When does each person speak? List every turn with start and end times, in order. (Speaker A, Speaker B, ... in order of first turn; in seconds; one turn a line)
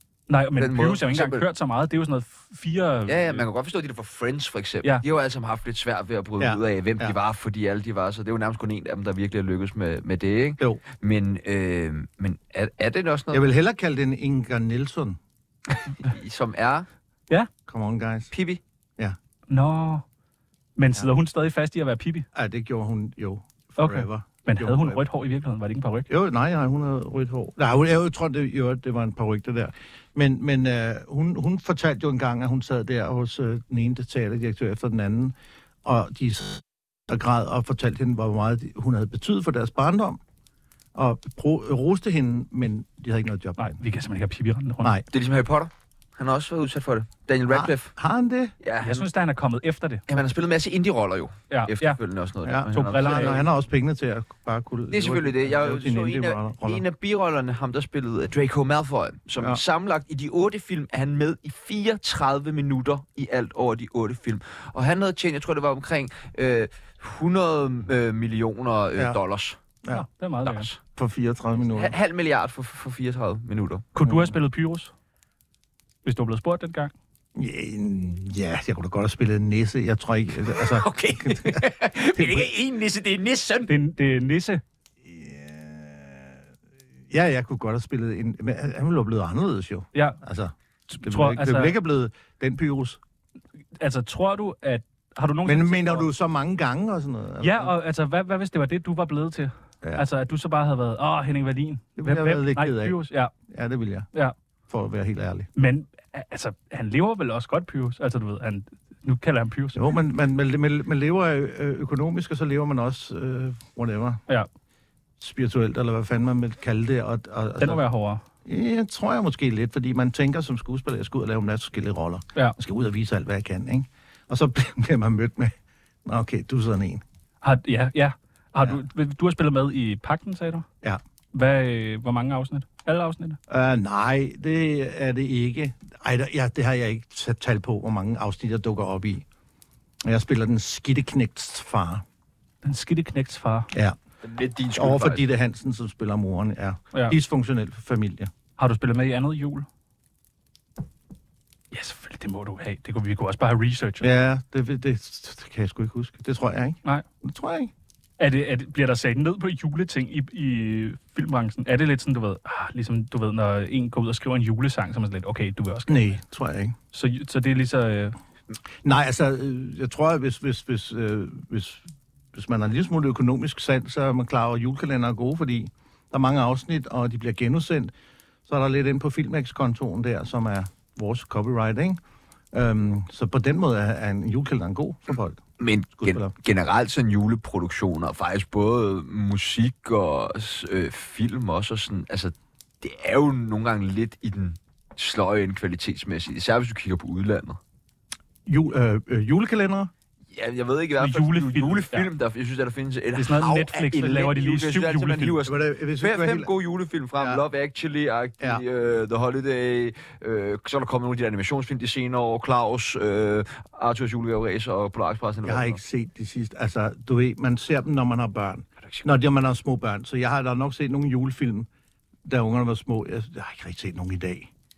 Speaker A: 0.3-3.4
Speaker B: 0.6-1.4
Speaker B: 3.1-13.4
Speaker C: 6.4-7.2
Speaker C: 13.3-15.2
Speaker B: 15.9-16.9
Speaker C: 17.7-18.3
Speaker B: 18.3-18.6
Speaker A: 19.5-20.0
Speaker A: 20.8-22.2
Speaker C: 22.3-25.0
Speaker A: 23.8-26.1
Speaker C: 26.1-40.2
Speaker C: 40.9-43.8
Speaker A: 43.6-44.9
Speaker B: 45.1-47.9
Speaker C: 47.5-48.5
Speaker B: 48.6-49.1
Speaker A: 48.8-50.0
Speaker B: 50.1-53.5
Speaker A: 51.5-52.0
Speaker C: 52.4-56.8
Speaker A: 52.7-53.4
Speaker B: 54.9-69.6
Speaker A: 69.9-70.7
Speaker B: 70.4-70.8
Speaker C: 71.0-71.9
Speaker B: 71.7-73.9
Speaker A: 73.9-74.9
Speaker C: 74.0-74.3
Speaker A: 76.0-76.9
Speaker C: 77.3-82.5
Speaker B: 80.5-83.7
Speaker A: 83.7-84.6
Speaker C: 85.0-86.4
Speaker C: 87.1-93.0
Speaker A: 90.9-91.7
Speaker A: 93.8-96.1
Speaker C: 95.4-97.7
Speaker A: 97.4-103.3
Speaker C: 102.0-104.1
Speaker C: 104.7-105.5
Speaker A: 105.5-109.8
Speaker C: 109.7-114.2
Speaker C: 115.2-117.8
Speaker A: 117.6-118.2
Speaker C: 118.4-127.0
Speaker A: 127.4-130.7
Speaker A: 131.3-133.4
Speaker C: 133.5-139.2
Speaker C: 140.0-142.0
Speaker A: 142.6-143.7
Speaker C: 143.7-144.0
Speaker B: 144.2-145.2
Speaker C: 144.7-148.3
Speaker A: 148.6-149.7
Speaker A: 151.7-154.1
Speaker C: 154.0-157.7
Speaker A: 158.2-166.2
Speaker C: 165.9-166.8
Speaker A: 166.9-168.2
Speaker C: 168.8-177.9
Speaker C: 178.5-182.0
Speaker C: 182.5-185.4
Speaker B: 185.6-197.6
Speaker C: 186.0-186.3
Speaker C: 198.4-199.9
Speaker B: 200.3-215.8
Speaker A: 201.0-202.1
Speaker A: 203.2-205.4
Speaker C: 205.4-206.5
Speaker C: 215.4-221.7
Speaker C: 222.2-224.5